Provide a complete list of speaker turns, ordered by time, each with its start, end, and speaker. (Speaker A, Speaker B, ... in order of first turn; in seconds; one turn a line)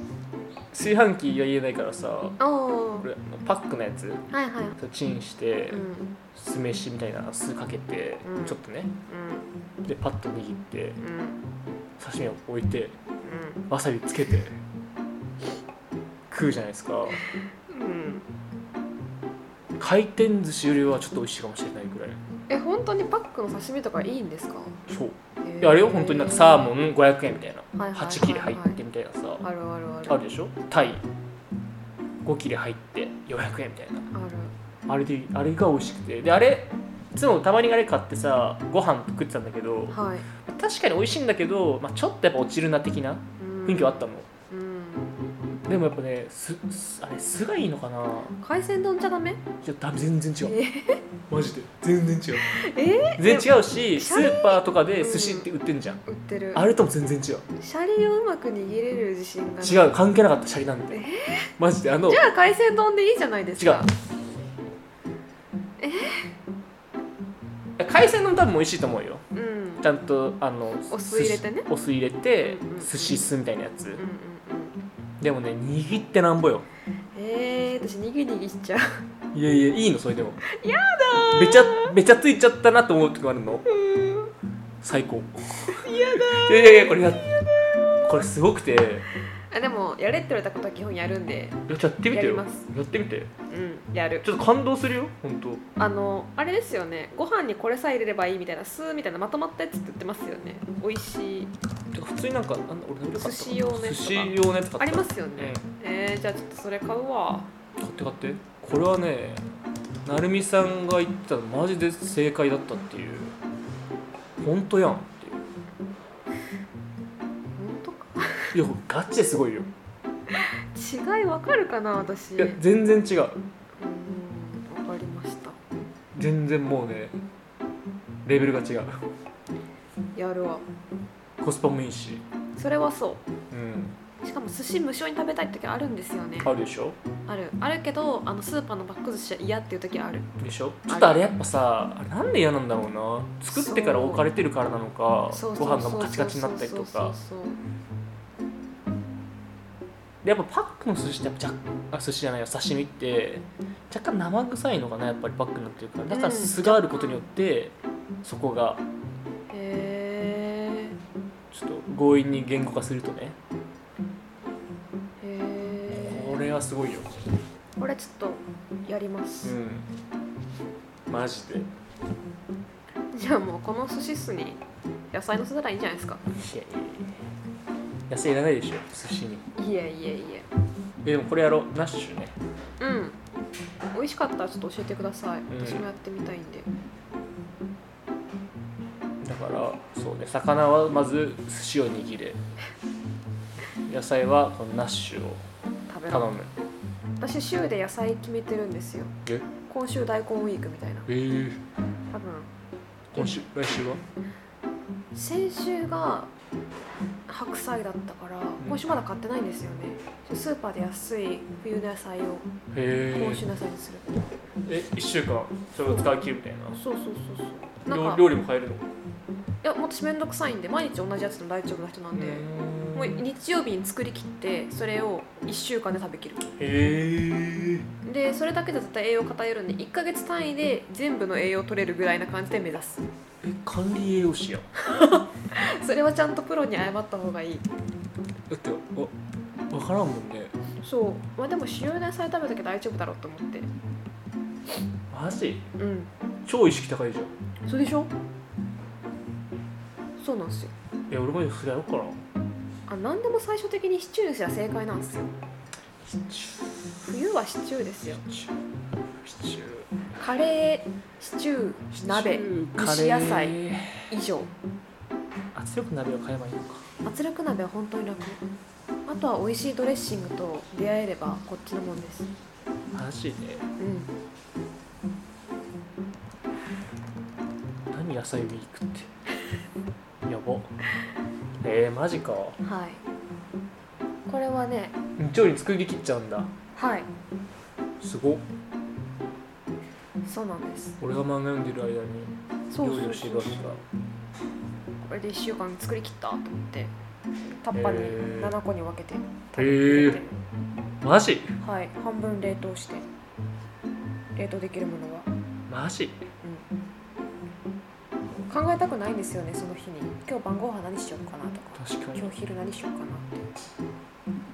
Speaker A: 0.7-2.4
Speaker B: 2.4-3.1
Speaker A: 3.0-4.2
Speaker B: 4.3-4.8
Speaker A: 4.8-8.9
Speaker B: 5.7-6.1
Speaker B: 8.2-9.5
Speaker A: 9.8-11.0
Speaker B: 11.0-11.4
Speaker A: 12.0-12.9
Speaker B: 13.2-13.6
Speaker A: 13.7-14.6
Speaker A: 16.3-17.2
Speaker B: 17.5-18.2
Speaker A: 19.8-22.2
Speaker B: 22.5-24.8
Speaker A: 24.9-29.4
Speaker B: 25.4-26.7
Speaker B: 27.8-28.8
Speaker B: 29.4-30.2
Speaker A: 30.1-31.0
Speaker A: 32.2-34.1
Speaker B: 34.1-34.5
Speaker A: 34.9-44.2
Speaker B: 39.9-40.3
Speaker B: 43.4-45.1
Speaker A: 45.7-48.4
Speaker B: 48.4-49.4
Speaker A: 49.6-50.6
Speaker B: 50.4-51.0
Speaker A: 51.3-52.6
Speaker B: 52.4-55.5
Speaker A: 53.2-56.0
Speaker B: 56.0-56.6
Speaker A: 56.5-57.5
Speaker B: 57.6-59.9
Speaker A: 59.6-61.0
Speaker B: 60.9-61.5
Speaker A: 61.6-62.2
Speaker B: 62.1-63.9
Speaker A: 63.6-63.9
Speaker B: 65.8-66.3
Speaker A: 67.8-69.2
Speaker B: 69.3-69.8
Speaker A: 69.8-74.0
Speaker B: 70.9-71.7
Speaker B: 72.4-73.2
Speaker B: 74.0-74.8
Speaker A: 75.2-76.7
Speaker B: 77.1-79.0
Speaker A: 79.3-80.4
Speaker B: 80.4-81.9
Speaker A: 81.3-83.7
Speaker B: 83.7-84.3
Speaker A: 84.8-87.3
Speaker B: 85.7-87.0
Speaker A: 88.0-89.0
Speaker B: 89.5-92.6
Speaker A: 91.7-93.3
Speaker B: 93.5-94.3
Speaker A: 94.2-95.6
Speaker B: 95.8-101.5
Speaker A: 101.9-105.6
Speaker B: 103.2-107.5
Speaker A: 107.8-109.4
Speaker A: 110.0-113.3
Speaker A: 114.4-115.5
Speaker B: 117.6-118.5
Speaker A: 118.5-119.7
Speaker B: 120.3-122.6
Speaker A: 122.4-123.4
Speaker B: 123.8-125.6
Speaker A: 126.1-127.2
Speaker A: 128.2-129.0
Speaker B: 130.1-130.7
Speaker A: 131.4-132.2
Speaker B: 132.6-133.2
Speaker A: 133.5-133.9
Speaker B: 134.2-136.5
Speaker A: 136.4-137.0
Speaker B: 137.2-140.3
Speaker A: 140.4-147.1
Speaker B: 140.9-141.3
Speaker B: 143.5-144.3
Speaker B: 145.3-147.6
Speaker A: 150.2-158.8
Speaker B: 156.1-157.2
Speaker B: 159.5-161.0
Speaker A: 161.5-163.4
Speaker B: 165.2-166.4
Speaker A: 165.9-167.2
Speaker B: 167.8-169.6
Speaker A: 169.4-169.9
Speaker A: 171.1-171.7
Speaker B: 173.1-176.2
Speaker A: 176.3-177.2
Speaker A: 178.1-179.5
Speaker B: 179.6-180.4
Speaker A: 181.0-182.4
Speaker B: 182.8-183.2
Speaker B: 183.9-186.7
Speaker A: 185.5-185.8
Speaker A: 189.2-192.4
Speaker A: 193.8-195.4
Speaker B: 195.9-196.3
Speaker A: 196.1-196.5
Speaker B: 197.2-199.1
Speaker B: 199.7-201.1
Speaker A: 201.1-201.6
Speaker B: 202.1-202.5
Speaker A: 203.1-204.0
Speaker B: 205.1-206.3
Speaker B: 207.3-212.5
Speaker A: 212.7-213.4
Speaker B: 213.1-214.3
Speaker A: 214.6-216.8
Speaker B: 216.7-218.3
Speaker A: 217.9-218.8
Speaker B: 219.6-226.5
Speaker A: 222.1-223.2
Speaker A: 226.6-227.9
Speaker B: 228.0-233.1
Speaker A: 233.4-234.7
Speaker B: 234.8-237.7
Speaker A: 238.5-239.1
Speaker A: 239.7-240.5
Speaker B: 240.8-243.7
Speaker A: 245.1-245.7
Speaker B: 245.8-246.1
Speaker A: 246.4-247.3
Speaker B: 247.7-248.1
Speaker B: 250.2-250.7
Speaker A: 251.1-252.2
Speaker B: 252.9-255.3
Speaker A: 256.0-256.9
Speaker B: 257.0-258.2
Speaker A: 258.0-258.5
Speaker A: 259.2-259.9
Speaker B: 260.1-263.6
Speaker A: 261.9-264.1
Speaker B: 264.1-264.5
Speaker A: 265.5-266.9
Speaker B: 267.0-268.4
Speaker B: 269.1-272.3
Speaker A: 272.9-273.7
Speaker B: 273.8-274.1
Speaker A: 277.9-279.1
Speaker A: 280.2-280.7
Speaker A: 281.6-282.6
Speaker B: 282.6-283.0
Speaker B: 284.3-284.9
Speaker A: 285.2-286.5
Speaker B: 286.8-287.1
Speaker A: 288.0-288.4
Speaker B: 290.2-290.9
Speaker A: 291.0-293.8
Speaker B: 292.7-293.8
Speaker B: 295.0-296.9
Speaker B: 297.5-300.4
Speaker A: 297.7-298.6
Speaker A: 299.6-300.2
Speaker A: 301.0-301.6
Speaker B: 301.6-303.1
Speaker B: 304.3-305.3
Speaker A: 305.7-306.2
Speaker B: 308.5-313.5
Speaker A: 311.7-312.3